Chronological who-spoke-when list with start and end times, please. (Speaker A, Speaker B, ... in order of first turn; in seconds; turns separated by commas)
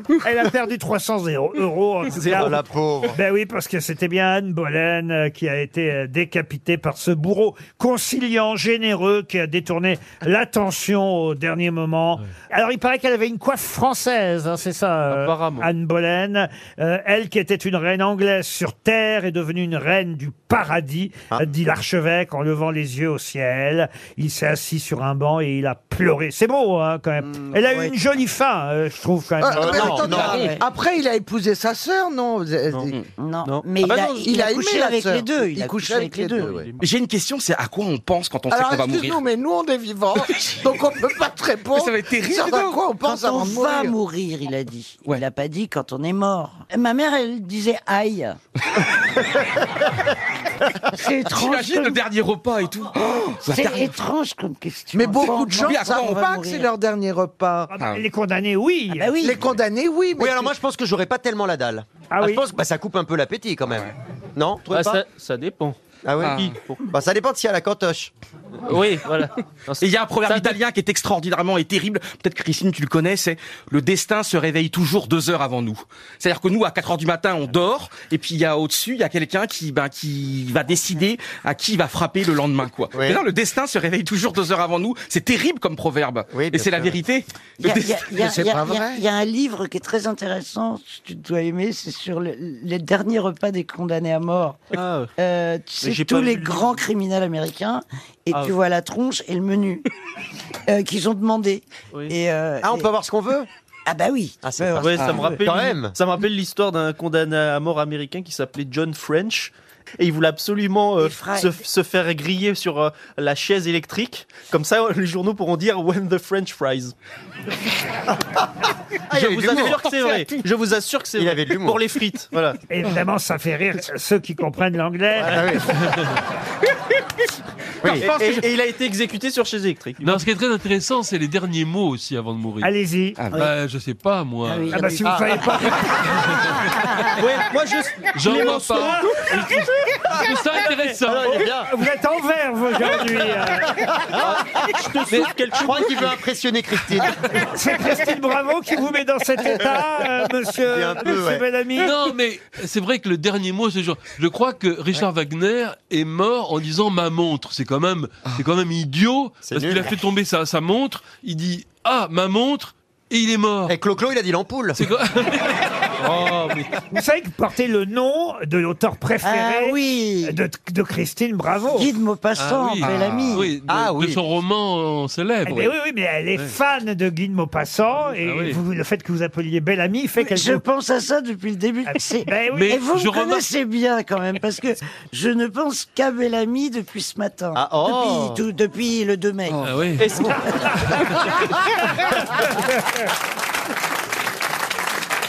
Speaker A: 0.2-2.6, Speaker B: 2.1-2.6, Speaker C: 2.3-3.2, Speaker A: 3.1-30.3, Speaker B: 15.1-15.7, Speaker D: 29.4-32.9, Speaker C: 29.6-30.6, Speaker E: 30.1-30.6, Speaker E: 33.2-36.6, Speaker D: 33.8-36.7, Speaker B: 36.4-36.8, Speaker F: 36.8-39.2, Speaker D: 38.5-43.9, Speaker F: 41.7-42.8, Speaker E: 43.0-48.4, Speaker E: 50.9-52.0, Speaker F: 51.3-54.0, Speaker E: 53.4-56.7, Speaker D: 54.9-57.7, Speaker F: 55.5-56.2, Speaker A: 57.7-59.1, Speaker F: 57.8-58.0, Speaker E: 58.9-59.4, Speaker D: 59.2-60.5, Speaker C: 60.2-65.0, Speaker A: 62.1-62.4, Speaker B: 64.7-66.8, Speaker C: 66.0-68.1, Speaker F: 66.2-66.5, Speaker B: 68.7-70.6, Speaker F: 69.8-88.6, Speaker C: 82.9-83.2, Speaker C: 86.3-86.9, Speaker E: 87.6-94.6, Speaker D: 88.3-89.0, Speaker B: 94.7-95.1, Speaker E: 95.2-99.8, Speaker B: 95.8-96.8, Speaker E: 100.7-102.9, Speaker C: 102.6-103.5, Speaker E: 103.8-105.4, Speaker C: 104.4-105.9, Speaker B: 104.8-116.9, Speaker E: 111.0-111.6, Speaker C: 119.1-119.8, Speaker B: 119.1-122.6, Speaker F: 119.4-120.3, Speaker C: 121.2-121.8, Speaker A: 122.7-125.5, Speaker C: 125.2-125.7, Speaker C: 127.8-128.1, Speaker B: 127.9-130.2, Speaker G: 130.0-132.7, Speaker A: 132.6-133.2, Speaker G: 133.3-134.8, Speaker E: 134.4-137.2, Speaker A: 134.7-136.0, Speaker C: 135.1-135.4, Speaker B: 137.2-138.9, Speaker G: 138.1-141.5, Speaker A: 138.3-139.6, Speaker C: 141.1-141.7, Speaker A: 141.3-143.8, Speaker C: 143.8-144.4, Speaker B: 144.2-146.2, Speaker C: 145.2-147.1, Speaker A: 147.3-151.9, Speaker C: 150.7-151.4, Speaker G: 151.8-163.7, Speaker C: 159.4-160.0, Speaker C: 163.7-164.8, Speaker G: 164.7-166.7, Speaker A: 166.9-171.9, Speaker E: 169.2-170.4, Speaker E: 171.7-173.5, Speaker G: 172.4-175.7, Speaker C: 173.7-174.2, Speaker A: 175.4-180.6, Speaker G: 178.2-178.6, Speaker E: 180.2-191.0, Speaker A: 182.2-182.8, Speaker G: 182.6-183.4, Speaker C: 187.5-188.4, Speaker G: 189.6-190.2, Speaker B: 190.0-190.3